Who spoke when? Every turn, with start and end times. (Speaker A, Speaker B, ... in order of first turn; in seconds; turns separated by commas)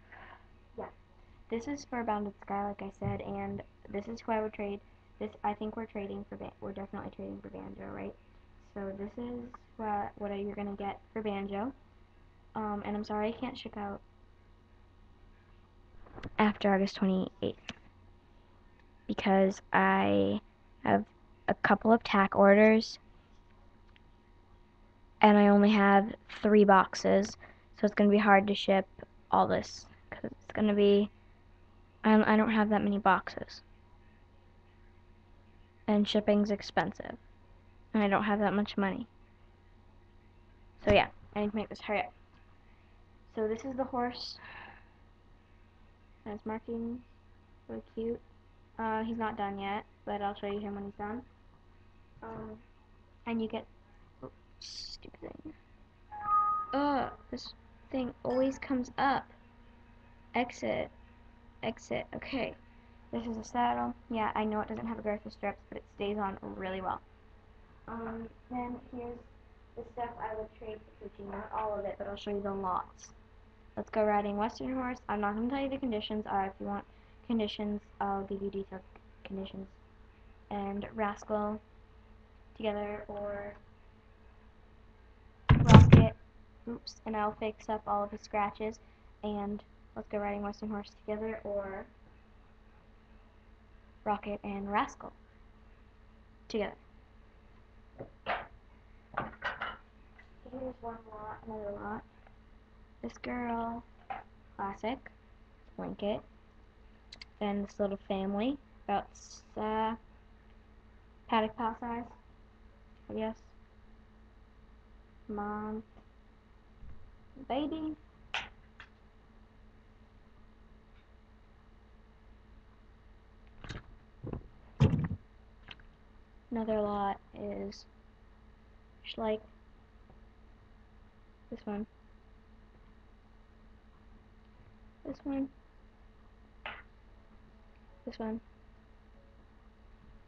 Speaker A: 1.5-11.8, Speaker A: 12.6-14.0, Speaker A: 16.4-17.8, Speaker A: 19.1-23.0, Speaker A: 25.2-31.1, Speaker A: 32.0-33.6, Speaker A: 35.9-37.2, Speaker A: 37.9-39.1, Speaker A: 40.8-42.1, Speaker A: 43.3-44.4, Speaker A: 46.2-47.1, Speaker A: 47.7-48.2, Speaker A: 48.8-51.3, Speaker A: 52.2-52.6, Speaker A: 53.3-53.7, Speaker A: 54.2-55.5, Speaker A: 56.7-59.4, Speaker A: 60.3-60.9, Speaker A: 61.6-62.6, Speaker A: 63.1-67.0, Speaker A: 67.9-73.2, Speaker A: 73.8-79.8, Speaker A: 80.5-81.6, Speaker A: 82.5-83.6, Speaker A: 85.5-91.9, Speaker A: 94.0-95.2, Speaker A: 96.5-96.8, Speaker A: 100.4-102.1, Speaker A: 103.0-103.9, Speaker A: 104.6-105.1, Speaker A: 105.7-106.2, Speaker A: 107.4-110.0, Speaker A: 111.3-112.2, Speaker A: 113.1-113.5, Speaker A: 115.3-115.9, Speaker A: 117.4-118.0, Speaker A: 126.5-127.9, Speaker A: 129.0-129.5, Speaker A: 131.5-131.9, Speaker A: 135.0-135.5, Speaker A: 138.1-138.4